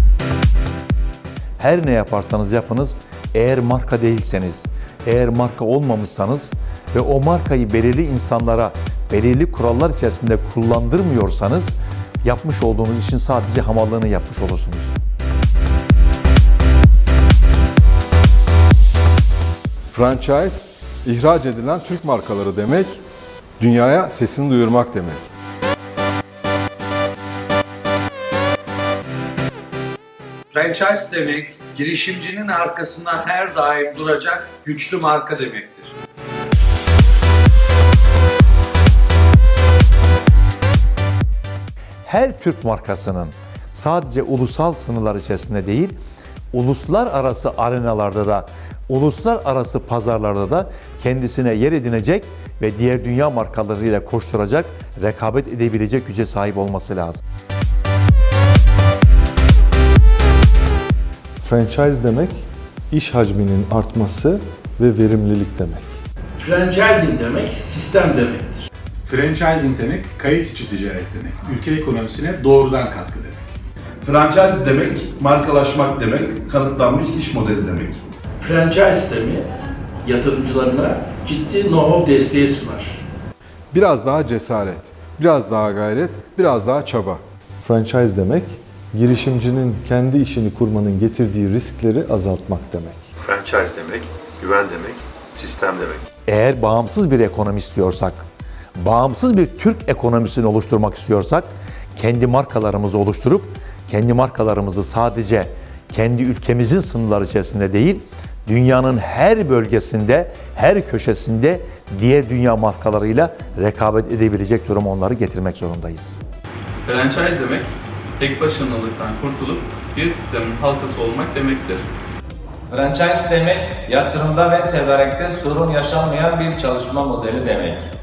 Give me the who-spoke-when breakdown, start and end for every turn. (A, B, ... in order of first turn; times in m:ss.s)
0:01.6-0:14.9 A
0:19.9-0:23.0 B
0:23.6-0:25.3 B
0:30.5-0:35.9 C
0:42.0-0:45.9 A
0:46.5-0:57.2 A
1:01.4-1:05.9 D
1:06.4-1:08.7 E
1:09.1-1:13.5 F
1:14.0-1:18.0 G
1:18.4-1:19.4 E
1:20.0-1:23.0 E
1:23.7-1:27.2 B
1:27.6-1:33.1 D
1:33.2-1:36.0 H
1:36.3-1:38.2 A
1:38.8-1:56.2 A
1:56.8-2:01.8 I
2:02.7-2:07.8 J